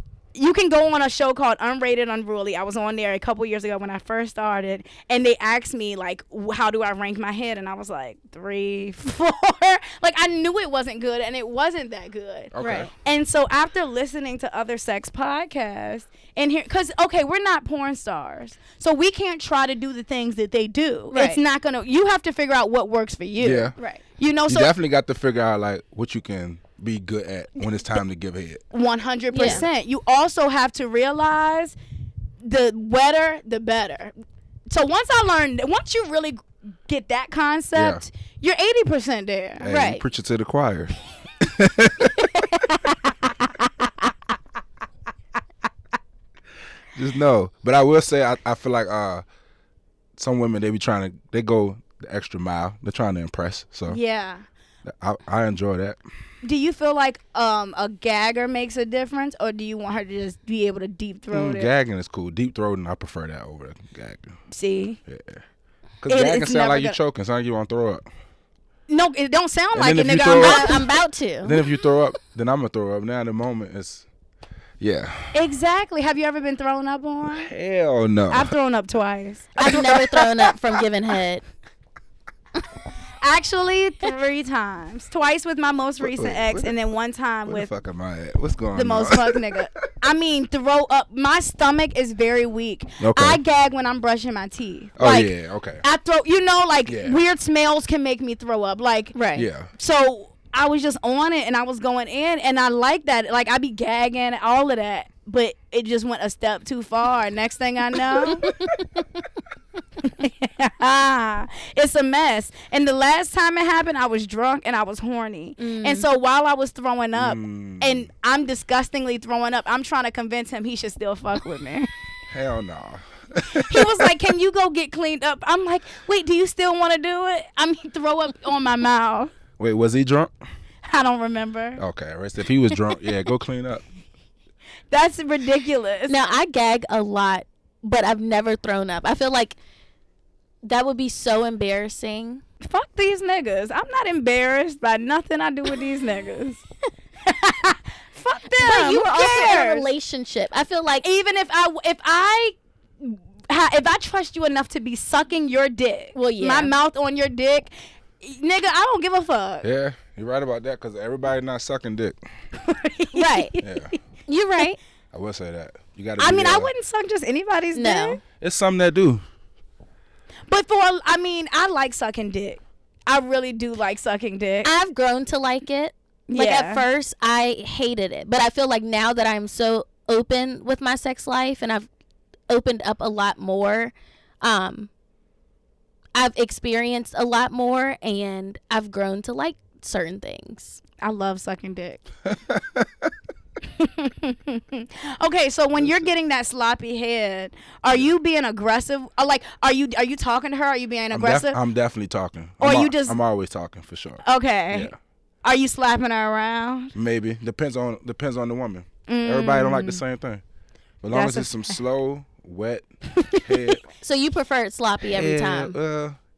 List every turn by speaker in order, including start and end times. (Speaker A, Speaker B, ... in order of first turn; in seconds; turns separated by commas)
Speaker A: 0.3-24.7, Speaker B: 12.5-12.9, Speaker C: 12.6-12.9, Speaker C: 21.1-21.4, Speaker B: 23.4-23.8, Speaker B: 24.5-28.6, Speaker A: 28.7-31.8, Speaker C: 29.3-29.6, Speaker A: 32.4-34.1, Speaker A: 34.7-39.7, Speaker B: 37.7-38.0, Speaker B: 39.6-42.6, Speaker C: 39.7-40.0, Speaker B: 46.9-49.2, Speaker B: 50.2-54.0, Speaker A: 53.9-54.4, Speaker B: 54.8-56.0, Speaker A: 56.4-61.7, Speaker B: 61.3-64.3, Speaker A: 64.5-65.0, Speaker B: 65.1-65.4, Speaker B: 66.0-68.0, Speaker A: 66.1-67.0, Speaker A: 68.9-70.8, Speaker B: 69.7-70.8, Speaker C: 70.3-71.6, Speaker B: 71.4-74.0, Speaker B: 74.8-75.4, Speaker A: 75.3-77.5, Speaker B: 77.2-78.5, Speaker A: 78.3-80.5, Speaker C: 79.6-81.4, Speaker A: 83.2-87.7, Speaker B: 86.0-86.7, Speaker B: 87.5-89.7, Speaker A: 88.7-95.3, Speaker B: 93.0-93.4, Speaker B: 95.0-95.8, Speaker A: 95.8-99.2, Speaker B: 96.9-97.2, Speaker C: 99.1-99.5, Speaker B: 99.3-99.7, Speaker A: 99.7-108.5, Speaker A: 110.0-121.9, Speaker C: 115.6-116.0, Speaker B: 117.1-118.1, Speaker B: 122.3-124.1, Speaker A: 123.5-129.3, Speaker B: 129.6-130.3, Speaker A: 130.8-131.8, Speaker B: 131.8-133.8, Speaker A: 134.9-136.2, Speaker C: 136.1-139.6, Speaker C: 140.6-142.4, Speaker A: 142.6-146.6, Speaker A: 147.2-149.9, Speaker C: 148.6-151.1, Speaker A: 151.0-159.7, Speaker C: 156.1-156.7, Speaker B: 159.6-162.2, Speaker A: 162.6-163.7, Speaker C: 163.1-163.5, Speaker B: 163.6-163.9, Speaker C: 164.3-164.8, Speaker B: 165.1-166.7, Speaker A: 166.2-168.2, Speaker C: 167.7-168.2, Speaker B: 168.4-169.2, Speaker A: 170.5-174.7, Speaker C: 174.6-181.9, Speaker A: 176.3-176.8, Speaker C: 182.5-184.9, Speaker C: 186.1-190.8, Speaker A: 191.0-192.0, Speaker B: 192.3-193.1, Speaker A: 193.7-201.6, Speaker B: 195.7-196.1, Speaker B: 201.1-204.9, Speaker A: 202.6-203.2, Speaker A: 204.2-204.9, Speaker A: 205.4-206.9, Speaker B: 206.9-210.4, Speaker A: 209.1-210.0, Speaker B: 211.0-213.8, Speaker A: 211.1-211.8, Speaker A: 213.2-213.4, Speaker C: 214.0-215.8, Speaker B: 215.0-216.2